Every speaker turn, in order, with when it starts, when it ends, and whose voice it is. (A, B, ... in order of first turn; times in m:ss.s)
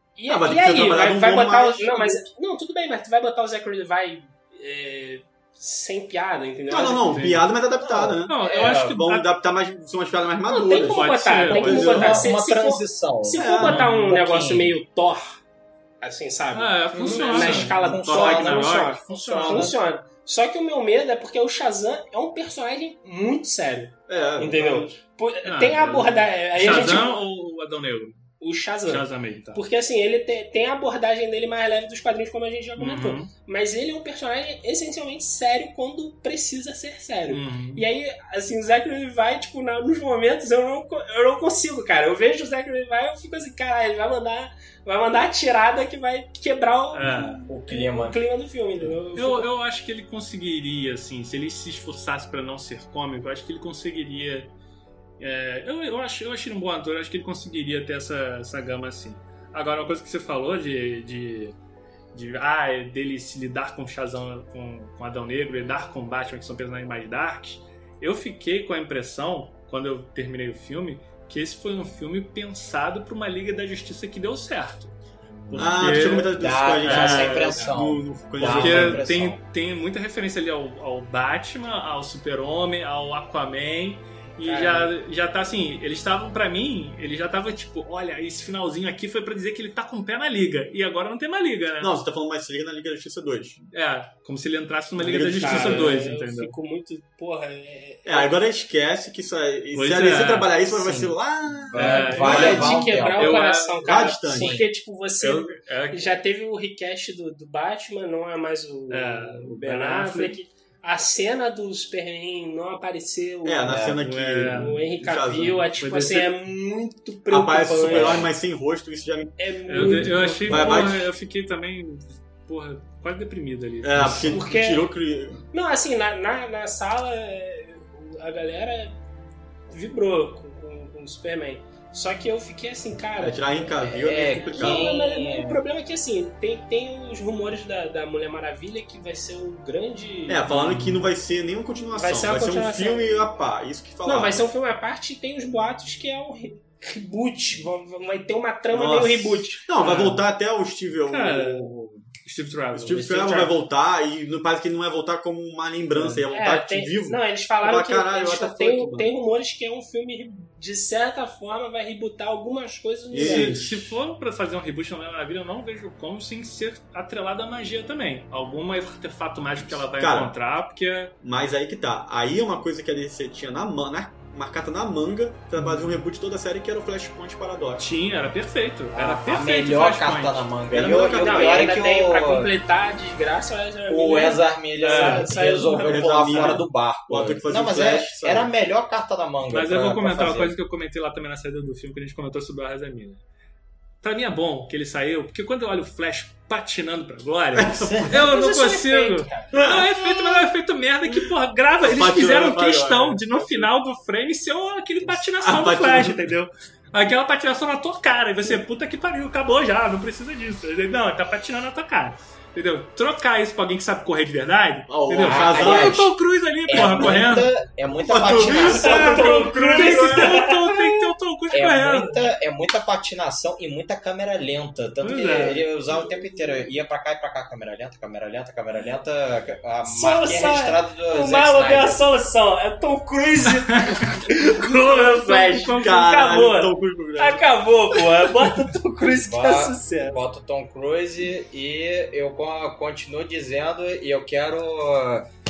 0:00.2-0:07.1 A
0:00.3-0:02.2 B
0:06.7-0:12.3 B
0:07.1-0:07.5 C
0:07.8-0:09.0 D
0:08.3-0:09.3 C
0:10.5-0:15.4 A
0:10.6-0:11.9 C
0:11.5-0:14.8 D
0:13.3-0:13.8 B
0:13.6-0:14.1 C
0:16.0-0:27.1 A
0:16.5-0:19.7 C
0:16.9-0:19.8 D
0:24.1-0:24.9 B
0:25.4-0:28.3 C
0:28.4-0:49.5 A
0:28.9-0:29.6 C
0:32.8-0:33.3 C
0:37.3-0:37.8 C
0:46.9-0:47.4 C
0:47.5-0:48.2 D
0:49.1-0:54.5 C
0:55.2-1:01.6 C
1:02.1-1:15.0 C
1:15.5-1:17.6 C
1:15.5-1:19.0 B
1:15.5-1:19.4 D
1:18.4-1:31.9 C
1:24.4-1:24.9 A
1:31.8-1:33.6 B
1:33.7-1:36.5 C
1:35.0-1:36.0 B
1:35.0-1:38.3 A
1:38.0-1:43.0 B
1:39.7-1:40.5 C
1:40.7-1:43.4 D
1:41.7-1:44.1 C
1:42.2-1:53.9 A
1:43.8-1:44.6 B
1:44.3-1:44.6 D
1:45.6-1:46.0 C
1:48.9-1:50.4 C
1:53.4-1:55.7 B
1:53.7-1:54.8 C
1:54.5-1:58.2 A
1:55.8-1:56.3 C
1:57.3-2:01.1 B
1:59.4-2:01.0 A
1:59.7-2:04.4 C
2:03.8-2:05.4 B
2:04.3-2:04.8 A
2:05.5-2:09.0 A
2:09.7-2:20.5 A
2:13.2-2:14.9 B
2:14.0-2:15.6 D
2:20.3-2:24.4 B
2:20.5-2:20.9 C
2:21.9-2:23.2 A
2:24.0-2:30.0 A
2:28.7-2:32.0 B
2:29.8-2:30.2 C
2:31.1-2:33.6 C
2:32.7-2:39.1 B
2:36.0-2:36.2 C
2:36.3-2:43.5 A
2:43.1-2:43.9 B
2:43.2-2:51.1 C
2:49.6-2:50.3 B
2:51.2-2:57.8 B
2:57.8-3:00.5 C
2:58.9-3:02.5 D
3:00.7-3:01.8 B
3:01.1-3:06.6 A
3:03.9-3:10.5 D
3:04.8-3:05.3 C
3:05.7-3:08.5 B
3:09.5-3:13.2 C
3:14.0-3:37.5 C
3:17.5-3:18.2 B
3:17.8-3:18.1 D
3:18.1-3:19.5 A
3:19.5-3:19.8 B
3:21.8-3:23.7 B
3:25.4-3:26.2 B
3:34.9-3:36.1 B
3:35.2-3:36.1 D
3:36.7-3:39.2 D
3:36.7-3:37.2 B
3:38.0-3:40.4 B
3:38.6-3:42.2 C
3:39.0-3:41.0 A
3:41.5-3:52.0 D
3:45.0-3:45.6 C
3:49.8-4:00.2 A
3:53.9-3:55.9 C
3:55.7-3:57.4 B
3:59.2-4:05.3 D